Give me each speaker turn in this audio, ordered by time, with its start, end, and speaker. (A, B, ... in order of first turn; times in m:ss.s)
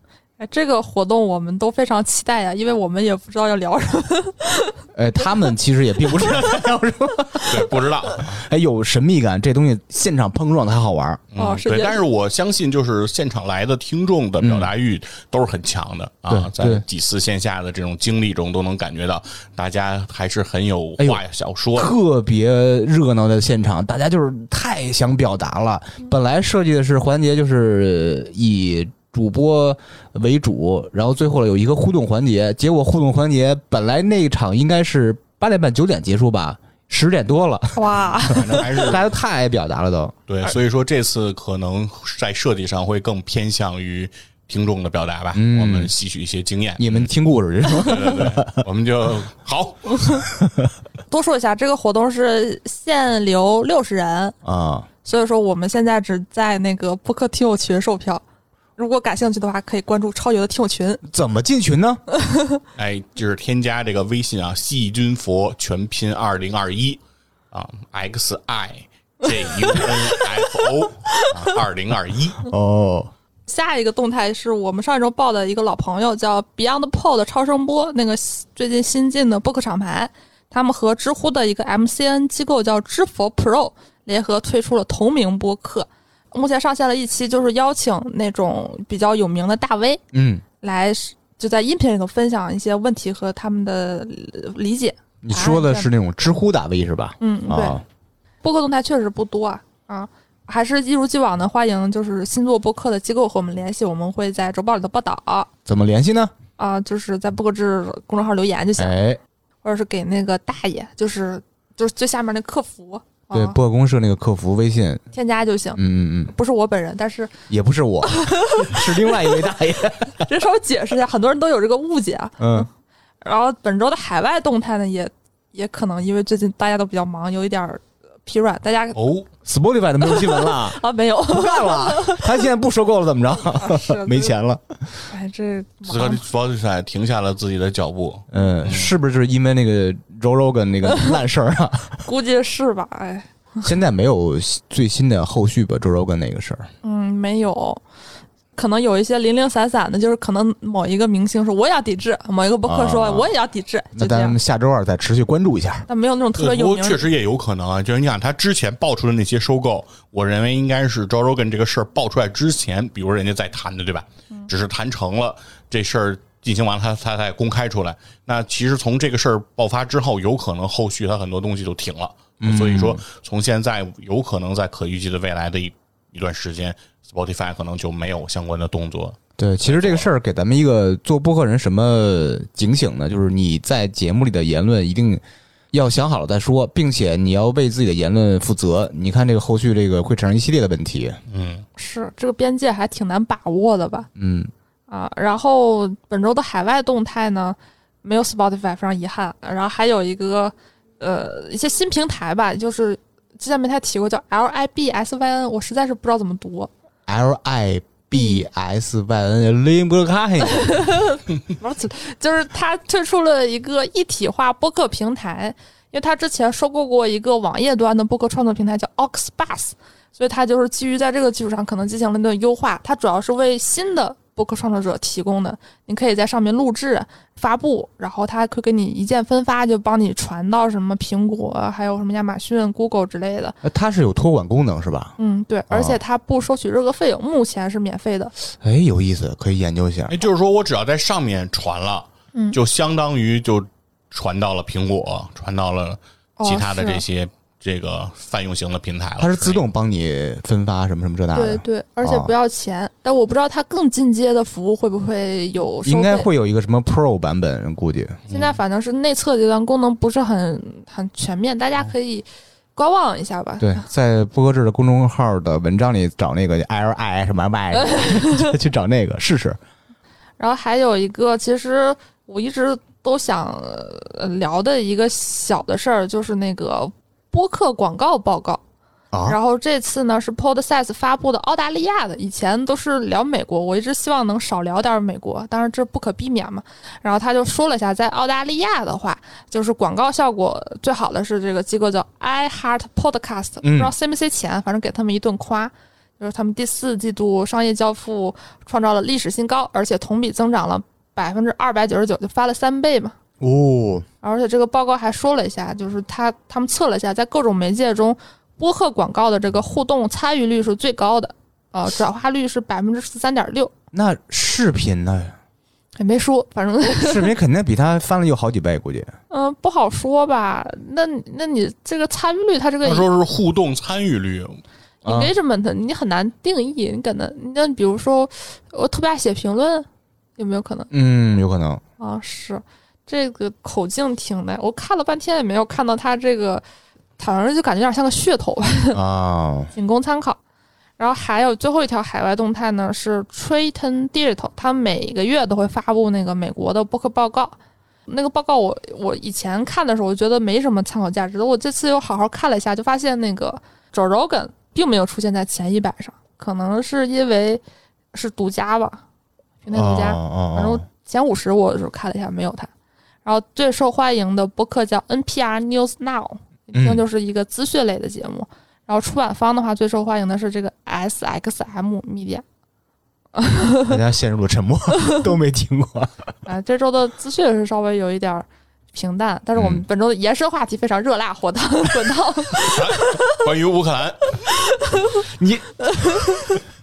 0:00.4-0:04.8 A
0:05.0-0:11.2 B
0:07.5-0:08.4 C
0:11.3-0:21.9 C
0:11.4-0:12.0 A
0:14.4-0:14.7 B
0:16.3-0:16.8 B
0:21.8-0:40.1 B
0:37.8-0:38.9 A
0:38.2-0:39.1 C
0:40.3-0:47.0 C
0:45.3-0:45.9 B
0:46.8-0:48.6 B
0:47.8-0:50.2 C
0:49.9-0:50.2 A
0:50.4-0:50.7 B
0:51.1-0:54.4 A
0:54.4-0:54.9 B
0:55.0-0:58.2 A
0:58.8-1:01.0 A
1:01.0-1:02.0 B
1:02.2-1:02.6 A
1:02.8-1:07.0 C
1:07.5-1:12.4 C
1:09.6-1:10.4 A
1:11.1-1:11.5 A
1:12.5-1:13.1 B
1:13.5-1:30.0 A
1:30.1-1:30.4 B
1:30.6-1:35.9 A
1:35.2-1:37.8 B
1:37.2-1:37.8 A
1:38.4-1:45.5 A
1:45.7-1:46.3 B
1:46.6-1:49.0 A
1:48.8-1:49.2 B
1:49.6-1:53.6 A
1:53.3-1:55.0 B
1:55.1-1:57.3 A
1:55.8-1:56.3 B
1:57.5-2:00.3 B
1:58.0-1:59.4 A
2:00.2-2:02.7 A
2:02.4-2:02.7 B
2:03.2-2:09.0 A
2:09.0-2:09.3 C
2:09.4-2:14.8 B
2:10.0-2:12.4 A
2:13.5-2:14.3 A
2:15.1-2:16.2 A
2:15.9-2:19.0 C
2:18.3-2:22.0 B
2:20.9-2:21.1 A
2:22.0-2:23.3 A
2:23.6-2:26.7 B
2:26.8-2:27.8 A
2:28.6-2:34.4 A
2:32.7-2:33.3 B
2:34.0-2:35.9 B
2:35.9-2:37.0 A
2:36.4-3:00.1 C
2:52.4-2:53.0 B
2:59.4-3:05.2 B
3:05.7-3:11.2 B
3:11.3-3:11.7 C
3:11.8-3:14.1 A
3:14.2-3:14.5 B
3:14.9-3:26.7 A
3:27.1-3:30.9 B
3:28.1-3:28.5 A
3:30.5-3:53.6 A
3:53.6-3:55.2 B
3:55.2-3:58.3 A
3:55.7-3:56.0 B
3:58.6-4:00.2 B
4:00.1-4:09.6 C
4:06.4-4:07.0 A
4:09.2-4:12.3 B
4:11.3-4:16.3 A
4:15.8-4:18.2 B
4:18.3-4:18.6 C
4:18.3-4:22.2 A
4:22.8-4:23.8 A
4:23.6-4:29.6 B
4:27.7-4:28.5 A
4:30.4-4:38.6 A
4:39.1-4:39.4 B
4:39.2-5:03.1 A
4:53.6-4:53.9 B
5:03.4-5:04.1 B
5:04.2-5:13.7 A
5:13.9-5:15.4 B
5:16.0-5:17.3 A
5:16.8-5:19.1 B
5:19.3-5:23.1 A
5:22.8-5:24.6 C
5:25.0-5:25.3 B
5:25.0-5:30.9 A
5:30.9-5:31.8 B
5:32.0-5:36.6 A
5:37.2-5:39.0 A
5:38.9-5:39.7 B
5:39.8-5:40.4 A
5:41.0-5:47.6 A
5:48.1-5:57.6 A
5:58.1-5:59.0 A
5:59.6-6:02.7 A
5:59.7-6:00.8 B
6:03.2-6:12.4 A
6:06.7-6:07.0 B
6:13.4-6:14.0 A
6:13.9-6:16.1 B
6:16.5-6:23.4 A
6:19.6-6:19.8 B
6:22.6-6:24.4 C
6:24.5-6:25.2 A
6:25.4-6:26.4 B
6:25.8-6:26.6 A